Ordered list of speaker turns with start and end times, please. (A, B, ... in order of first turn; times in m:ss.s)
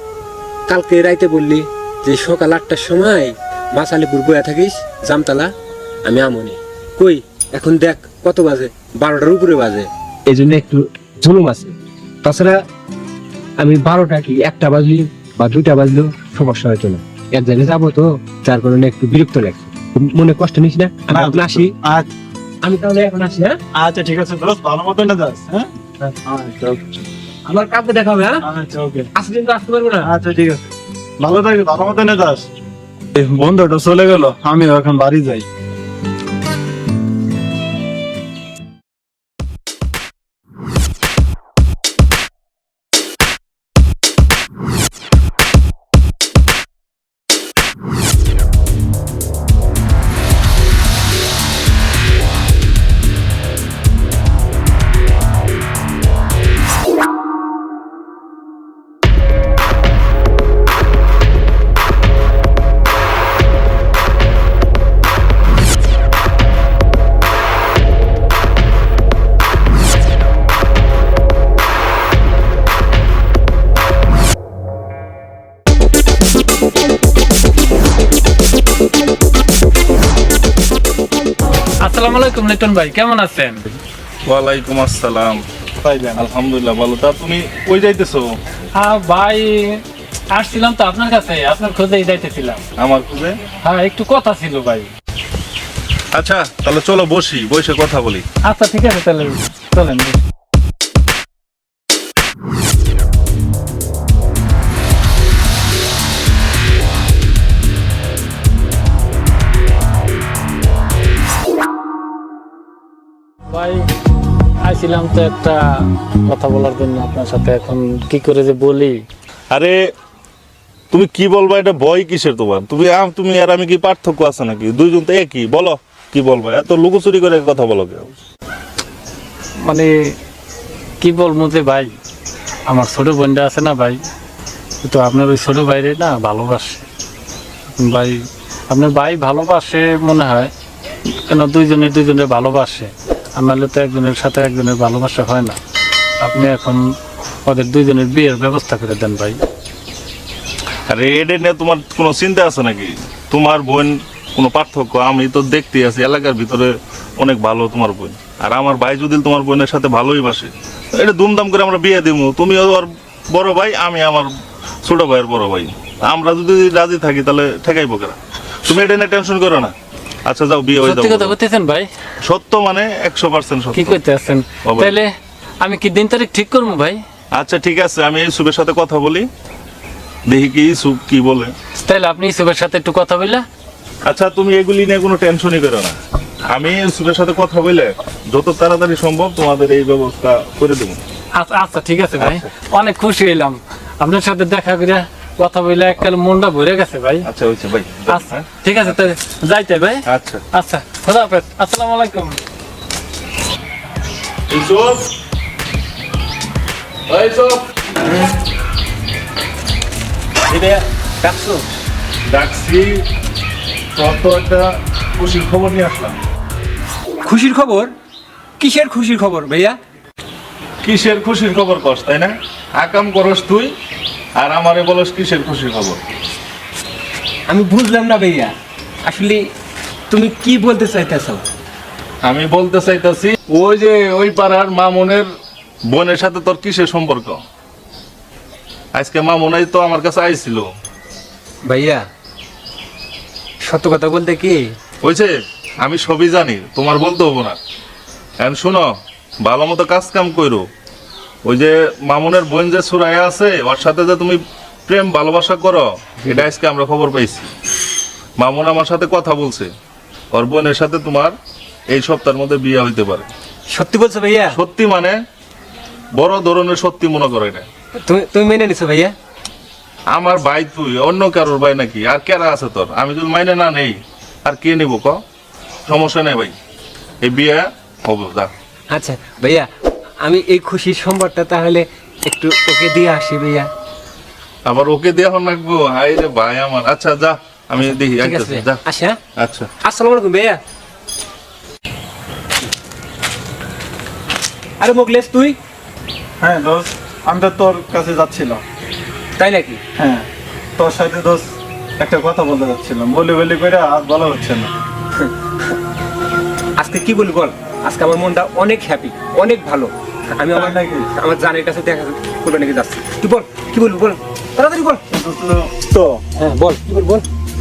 0:00.7-0:05.5 A
0:06.0-0:12.6 A
0:13.6-0:21.7 A
0:21.1-0:22.1 B
0:22.6-0:23.6 A
0:23.7-0:26.8 B
0:27.4-0:28.4 A
0:28.4-0:29.1 B
0:29.1-0:30.1 A
0:30.0-0:30.6 B
0:31.2-0:32.5 B
0:33.1-0:35.4 B
1:21.8-1:23.8 C
1:24.2-1:25.4 D
1:25.8-1:26.2 C
1:26.1-1:28.2 D
1:28.8-1:29.8 C
1:30.3-1:32.6 C
1:32.8-1:33.4 D
1:33.6-1:34.9 C
1:36.1-1:38.2 D
1:38.4-1:40.2 C
1:53.5-1:53.8 C
1:54.6-1:59.0 C
2:00.9-2:08.1 D
2:09.6-2:09.9 C
2:11.0-2:11.9 C
2:12.7-2:14.0 C
2:14.8-2:16.8 C
2:17.8-2:18.2 C
2:18.7-2:20.5 C
2:21.3-2:25.6 C
2:26.2-2:26.8 C
2:27.4-2:29.4 C
2:30.9-2:44.3 D
2:44.8-2:49.7 D
2:50.2-2:51.4 D
2:50.8-2:51.8 C
2:52.2-2:54.0 D
2:53.7-2:55.1 C
2:54.6-2:55.0 D
2:55.6-2:57.0 C
2:57.3-2:59.3 D
3:00.3-3:01.5 D
3:01.8-3:03.4 C
3:04.0-3:06.0 D
3:06.5-3:11.0 D
3:11.4-3:17.3 C
3:12.2-3:12.4 D
3:17.2-3:18.9 D
3:18.1-3:22.4 C
3:20.1-3:20.4 D
3:24.5-3:25.1 D
3:27.1-3:28.2 D
3:30.5-3:31.6 A
3:32.3-3:33.0 D
3:33.9-3:36.2 D
3:37.2-3:37.9 A
3:38.6-3:39.8 A
3:40.8-3:43.7 D
3:44.4-3:46.0 D
3:47.5-3:48.5 A
3:49.0-3:49.4 A
3:50.1-3:51.4 A
3:52.2-3:55.3 D
3:55.9-3:57.4 D
3:58.9-4:00.6 D
4:01.6-4:02.0 A
4:03.6-4:04.7 A
4:05.0-4:05.3 D
4:05.8-4:07.6 D
4:08.4-4:08.9 D
4:09.4-4:10.6 D
4:11.4-4:17.5 D
4:18.4-4:19.7 D
4:20.3-4:21.4 D
4:21.9-4:23.3 D
4:23.7-4:24.6 A
4:24.5-4:25.2 D
4:26.1-4:27.7 D
4:28.0-4:29.1 A
4:30.1-4:35.2 D
4:35.9-4:36.5 D
4:37.2-4:38.5 D
4:38.9-4:39.7 A
4:40.2-4:43.7 A
4:44.6-4:48.8 D
4:47.8-4:49.2 A
4:49.4-4:49.7 D
4:49.8-4:50.6 A
4:54.8-4:55.6 A
4:56.4-4:58.6 B
4:59.4-4:59.8 A
5:00.0-5:00.2 B
5:00.8-5:01.4 B
5:02.0-5:04.7 B
5:06.8-5:15.0 A
5:10.5-5:11.1 B
5:15.1-5:16.2 B
5:16.4-5:17.2 A